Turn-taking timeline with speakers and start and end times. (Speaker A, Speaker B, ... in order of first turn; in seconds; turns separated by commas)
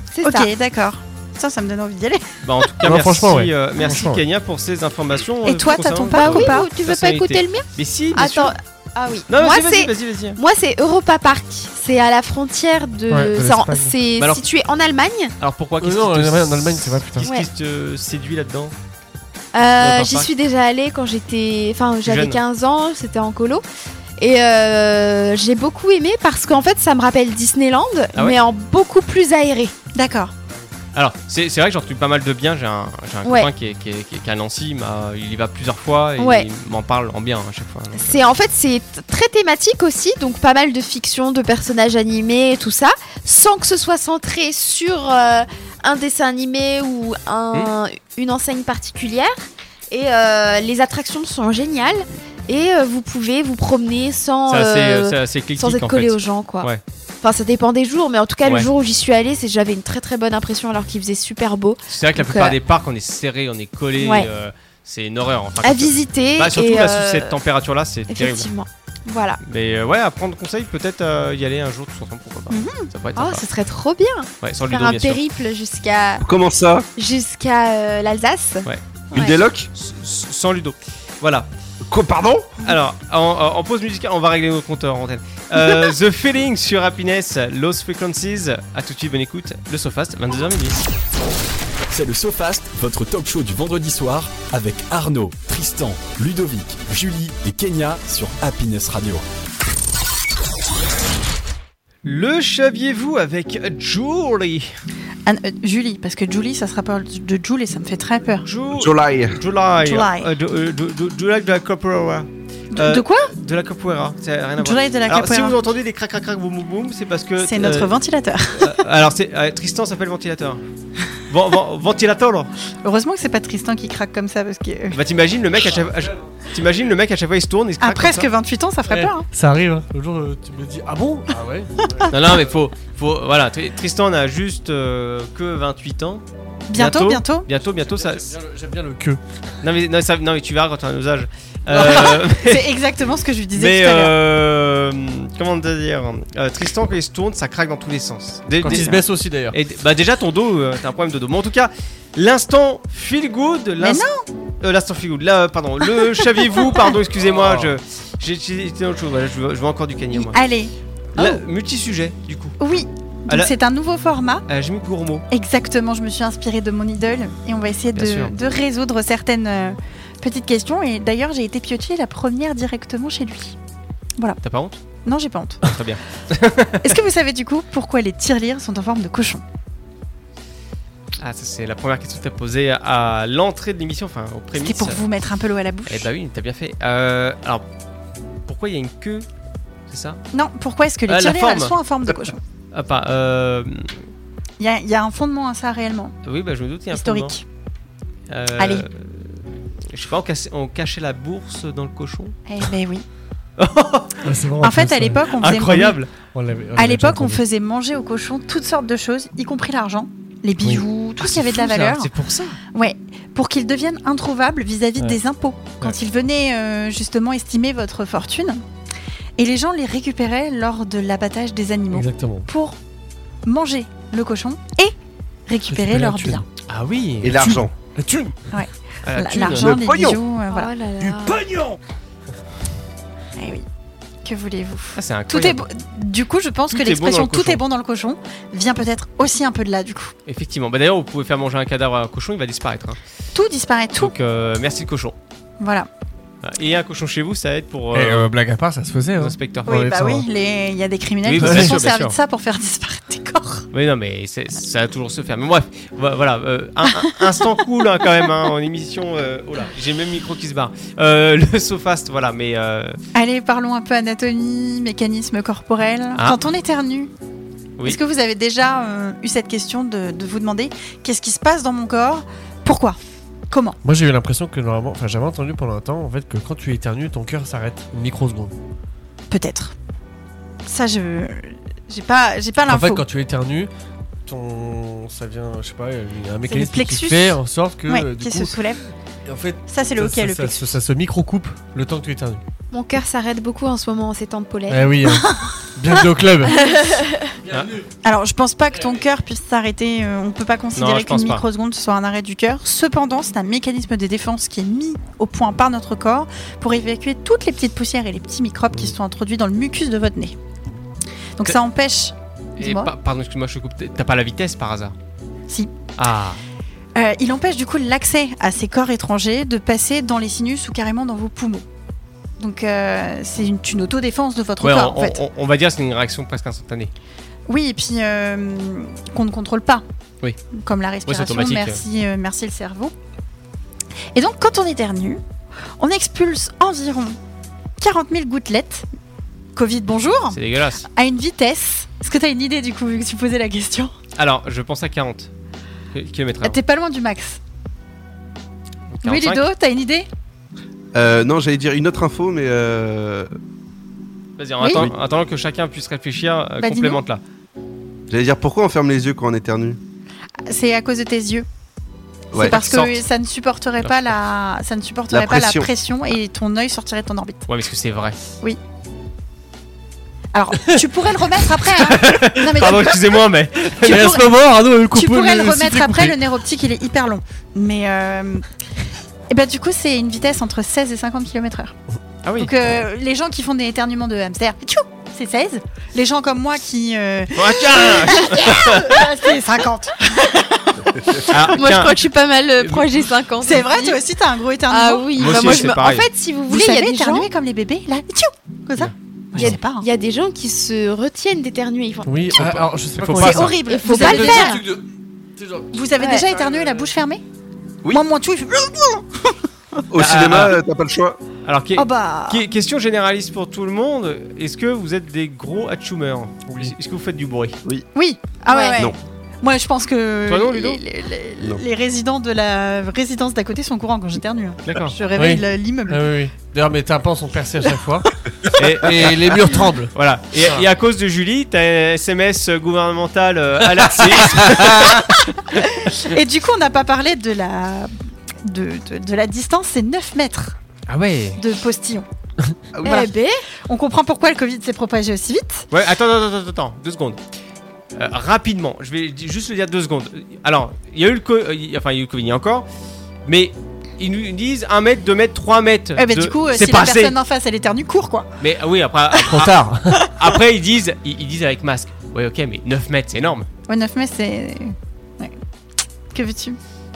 Speaker A: 0.1-0.5, Speaker B: 0.2-2.3, Speaker C: 2.4-8.5, Speaker D: 2.8-4.2, Speaker B: 5.4-6.7, Speaker A: 6.1-15.3, Speaker C: 9.3-10.4, Speaker D: 13.1-14.0, Speaker C: 14.2-14.4, Speaker C: 15.4-18.7, Speaker D: 15.8-17.3, Speaker A: 17.2-17.5, Speaker A: 19.5-23.6, Speaker C: 19.8-20.3, Speaker C: 22.1-22.4, Speaker A: 24.2-29.7, Speaker C: 28.1-28.4, Speaker B: 29.9-30.3, Speaker C: 30.9-38.2, Speaker A: 33.2-33.5, Speaker A: 36.2-36.5, Speaker A: 37.9-49.4, Speaker A: 49.9-56.7, Speaker C: 54.5-56.8, Speaker A: 57.2-62.6, Speaker C: 58.4-58.7, Speaker C: 61.9-68.5, Speaker A: 64.0-64.3, Speaker A: 65.6-67.4, Speaker A: 68.1-69.4, Speaker C: 69.4-73.5, Speaker A: 72.6-76.2, Speaker C: 74.4-75.2, Speaker E: 76.2-76.9, Speaker A: 77.0-79.4, Speaker E: 79.1-79.7, Speaker C: 79.7-81.5, Speaker E: 81.9-82.6, Speaker C: 82.6-90.8, Speaker F: 91.9-99.2, Speaker C: 102.0-104.7, Speaker B: 105.2-108.5, Speaker C: 108.5-117.9, Speaker E: 108.8-109.4, Speaker B: 109.8-110.3, Speaker B: 112.7-113.3, Speaker B: 114.6-115.6, Speaker B: 117.4-118.8, Speaker C: 118.6-120.6, Speaker C: 121.3-122.5, Speaker B: 122.8-125.0, Speaker C: 124.9-128.3, Speaker B: 127.8-129.3, Speaker D: 128.9-132.6, Speaker C: 132.1-138.3, Speaker B: 136.7-137.5, Speaker D: 137.7-139.2, Speaker C: 139.6-142.7, Speaker D: 141.7-142.2, Speaker B: 142.2-144.2, Speaker C: 143.5-149.0, Speaker D: 148.6-149.6, Speaker B: 148.6-149.0, Speaker C: 149.5-154.1, Speaker B: 153.8-154.3, Speaker C: 154.6-160.4, Speaker B: 156.0-156.2, Speaker D: 157.2-157.7, Speaker B: 160.1-161.4, Speaker C: 161.2-162.6, Speaker B: 162.6-164.4, Speaker C: 164.5-165.2, Speaker B: 165.3-173.6, Speaker C: 167.9-168.3, Speaker C: 174.4-174.8, Speaker B: 175.0-175.7, Speaker C: 175.7-176.9, Speaker B: 176.8-179.4, Speaker C: 181.2-185.0, Speaker B: 184.6-186.1, Speaker C: 185.9-187.6, Speaker C: 188.5-189.3, Speaker C: 189.9-190.2, Speaker B: 190.3-192.4, Speaker C: 191.1-191.8, Speaker C: 192.7-194.0, Speaker B: 194.6-196.2, Speaker C: 196.2-197.4, Speaker B: 196.9-197.4, Speaker C: 198.3-202.3, Speaker B: 198.6-198.9, Speaker B: 202.5-203.1, Speaker C: 203.6-204.2, Speaker D: 204.2-205.3, Speaker B: 204.6-206.0, Speaker C: 205.4-206.1, Speaker D: 206.3-207.4, Speaker B: 206.8-212.1, Speaker C: 211.2-212.6, Speaker B: 212.7-218.6, Speaker B: 219.4-222.8, Speaker D: 221.9-222.5, Speaker B: 223.4-224.9, Speaker B: 225.5-226.4, Speaker D: 225.7-226.4, Speaker C: 226.7-227.4, Speaker E: 227.2-227.7, Speaker D: 227.4-228.5, Speaker B: 228.5-230.7, Speaker C: 229.0-229.7, Speaker E: 229.5-230.2, Speaker A: 230.5-231.5, Speaker B: 233.4-233.7, Speaker B: 234.2-240.1, Speaker C: 235.0-235.7, Speaker C: 236.7-237.6, Speaker C: 240.3-243.0, Speaker B: 243.3-244.1, Speaker C: 244.0-245.2, Speaker B: 245.6-245.9, Speaker C: 246.4-248.3, Speaker D: 247.9-250.3, Speaker C: 249.2-249.8, Speaker B: 249.7-253.7, Speaker C: 251.2-252.2, Speaker D: 251.4-251.8, Speaker C: 253.7-263.0, Speaker B: 256.9-257.6, Speaker B: 263.1-267.1, Speaker B: 267.8-273.0, Speaker B: 273.5-273.8, Speaker D: 273.8-278.5, Speaker B: 279.3-279.7, Speaker B: 280.6-283.1, Speaker D: 282.7-283.7, Speaker D: 284.3-288.6, Speaker B: 286.5-288.8, Speaker D: 289.3-292.4, Speaker B: 289.7-290.8, Speaker A: 292.7-294.9, Speaker D: 294.7-296.6, Speaker B: 295.1-296.0, Speaker A: 296.5-297.3, Speaker C: 297.5-297.8, Speaker D: 297.5-297.9, Speaker B: 298.0-310.4, Speaker C: 300.8-301.4, Speaker B: 311.4-312.9, Speaker C: 312.6-314.9, Speaker C: 316.0-316.4, Speaker B: 316.9-321.7, Speaker B: 322.4-325.2, Speaker C: 324.6-326.9, Speaker B: 327.5-329.8, Speaker B: 330.5-332.9, Speaker C: 331.1-331.8, Speaker B: 334.1-335.2, Speaker B: 335.8-337.2, Speaker B: 337.8-338.9, Speaker B: 339.6-343.9, Speaker C: 340.3-340.9, Speaker C: 344.2-345.3, Speaker C: 345.9-346.6, Speaker B: 346.4-347.4, Speaker C: 349.0-349.4, Speaker B: 349.0-350.1, Speaker E: 350.9-353.3, Speaker C: 354.4-357.2, Speaker B: 354.6-354.9, Speaker B: 356.6-357.0, Speaker E: 358.1-359.8, Speaker B: 360.5-361.5, Speaker E: 362.3-362.6, Speaker B: 362.3-367.5, Speaker C: 362.4-363.0, Speaker E: 365.1-365.7, Speaker C: 367.5-368.2, Speaker B: 370.3-373.1, Speaker C: 371.7-374.1, Speaker B: 373.8-374.3, Speaker D: 373.8-376.2, Speaker B: 374.9-378.5, Speaker B: 379.3-381.8, Speaker C: 382.2-382.5, Speaker B: 382.4-391.4, Speaker C: 387.4-389.0, Speaker C: 391.3-392.1, Speaker A: 391.5-394.0, Speaker C: 392.6-392.9, Speaker B: 393.4-395.7, Speaker A: 394.7-397.3, Speaker C: 395.2-396.1, Speaker B: 396.5-399.9, Speaker C: 398.8-399.5, Speaker A: 399.4-402.1, Speaker D: 402.1-404.8, Speaker C: 402.4-403.6, Speaker B: 403.2-404.6, Speaker A: 403.6-404.6, Speaker D: 405.4-406.8, Speaker B: 405.7-407.2, Speaker A: 406.0-406.3, Speaker B: 407.9-409.4, Speaker E: 409.9-411.2, Speaker C: 410.0-410.6, Speaker C: 411.4-417.6, Speaker B: 411.8-412.5, Speaker D: 416.5-416.8, Speaker B: 417.9-426.1, Speaker A: 418.5-418.9, Speaker C: 420.3-420.8, Speaker C: 424.6-425.0, Speaker D: 425.2-428.1, Speaker C: 428.5-429.1, Speaker D: 428.8-429.9, Speaker C: 429.9-436.1, Speaker D: 434.1-434.9, Speaker B: 435.6-437.9, Speaker B: 438.4-440.6, Speaker C: 440.9-441.4, Speaker B: 441.4-442.1, Speaker E: 442.7-443.1, Speaker B: 442.8-443.1, Speaker A: 442.8-443.4, Speaker B: 443.7-445.7, Speaker C: 445.7-447.2, Speaker C: 448.0-452.7, Speaker C: 453.3-457.2, Speaker B: 456.0-458.3, Speaker C: 458.4-463.5, Speaker D: 459.2-460.0, Speaker B: 463.7-465.4, Speaker B: 466.1-466.6